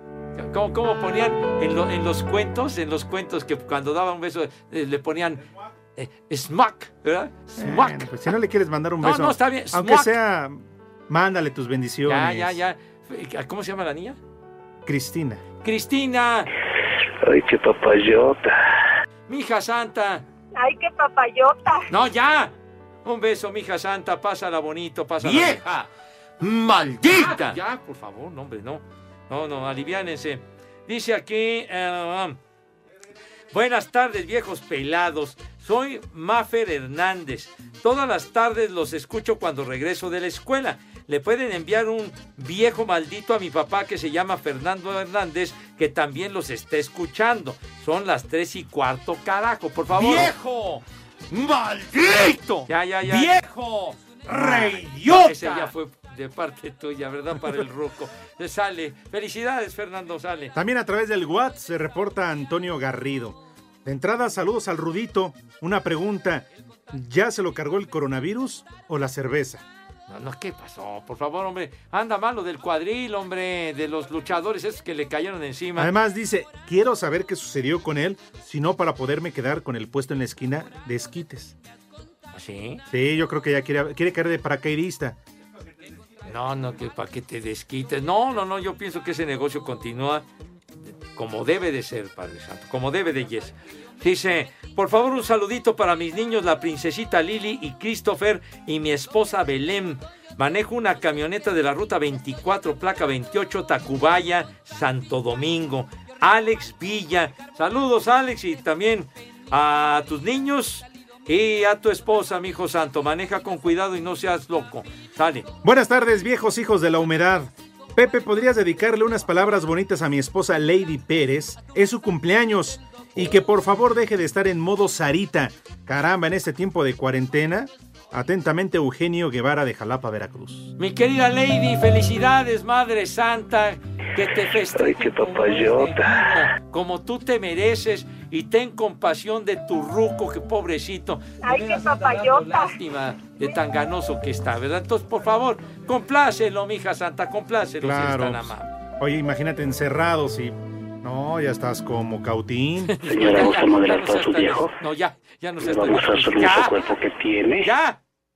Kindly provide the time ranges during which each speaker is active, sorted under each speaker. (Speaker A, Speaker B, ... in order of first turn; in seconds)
Speaker A: 0.4-5.4, 6.0-8.1, 9.0-10.1, 12.1-14.2, 15.6-16.5, 19.3-20.2, 21.9-22.5, 23.1-25.8, 27.1-32.4, 33.5-50.8, 52.7-60.5, 70.1-75.9, 82.3-82.8, 86.2-90.2, 91.1-115.5, 130.8-148.7, 152.9-156.8, 157.6-158.0
Speaker B: 7.6-12.6, 14.8-15.4, 54.3-54.7, 60.5-69.6, 75.8-81.5, 82.9-85.2, 115.6-130.7, 147.8-153.0
Speaker C: 17.2-18.6, 51.4-52.1, 134.8-136.2, 153.1-154.7, 155.6-157.7
Speaker D: 20.6-21.8, 141.4-142.7